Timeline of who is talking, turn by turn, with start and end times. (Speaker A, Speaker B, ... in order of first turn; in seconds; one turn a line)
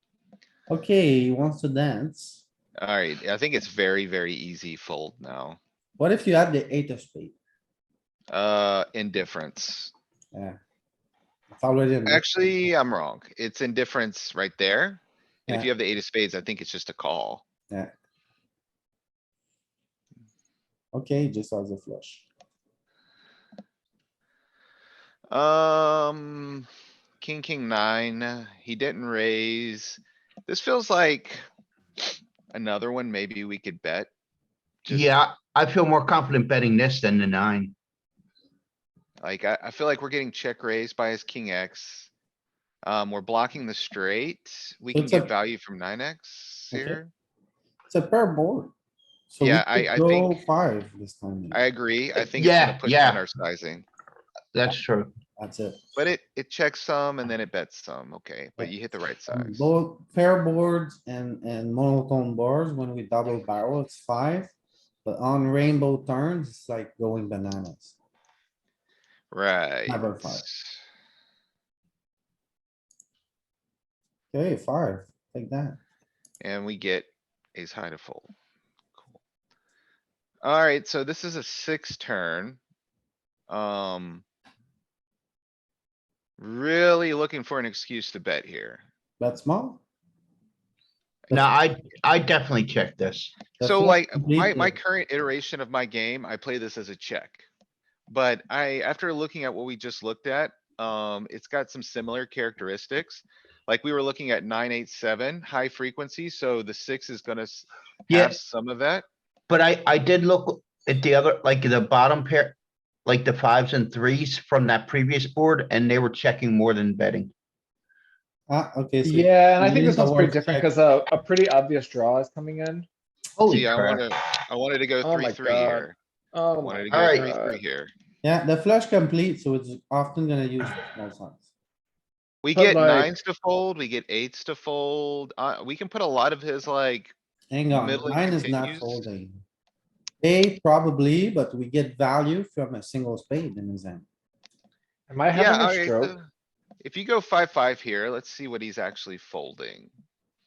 Speaker A: 0.7-2.4
Speaker B: 2.8-5.6
Speaker A: 6.0-7.3
Speaker B: 8.3-9.9
Speaker A: 10.3-10.6
Speaker A: 11.5-12.2
Speaker B: 12.1-17.4
Speaker A: 20.9-22.2
Speaker B: 25.3-26.7
Speaker B: 27.2-31.4
Speaker B: 32.5-34.1
Speaker B: 34.9-35.1
Speaker C: 34.9-37.7
Speaker B: 39.2-42.1
Speaker B: 42.9-47.1
Speaker A: 44.9-45.3
Speaker A: 46.7-47.0
Speaker A: 47.9-48.7
Speaker A: 49.3-51.6
Speaker B: 49.4-50.4
Speaker B: 51.5-53.9
Speaker C: 52.2-53.2
Speaker C: 54.5-55.1
Speaker A: 55.4-55.8
Speaker B: 56.0-59.7
Speaker A: 59.3-64.5
Speaker A: 65.0-68.0
Speaker B: 69.3-70.8
Speaker A: 69.9-70.5
Speaker A: 74.3-75.8
Speaker B: 76.4-78.3
Speaker B: 80.4-82.6
Speaker B: 83.5-84.2
Speaker B: 86.4-88.8
Speaker A: 89.2-89.8
Speaker C: 91.3-93.4
Speaker A: 93.6-94.8
Speaker B: 93.6-97.5
Speaker B: 98.1-109.0
Speaker C: 108.1-108.4
Speaker C: 109.5-117.3
Speaker A: 118.5-120.7
Speaker D: 119.0-122.9
Speaker C: 123.4-124.0
Speaker B: 123.5-126.0
Speaker D: 125.0-127.6
Speaker B: 126.6-127.9
Speaker C: 126.9-127.3
Speaker A: 128.2-131.4
Speaker B: 132.4-137.1
Speaker D: 132.5-133.1
Speaker A: 137.5-139.4
Speaker B: 137.7-139.1
Speaker A: 140.2-144.1
Speaker D: 145.1-146.2
Speaker B: 145.3-146.3
Speaker B: 146.8-149.9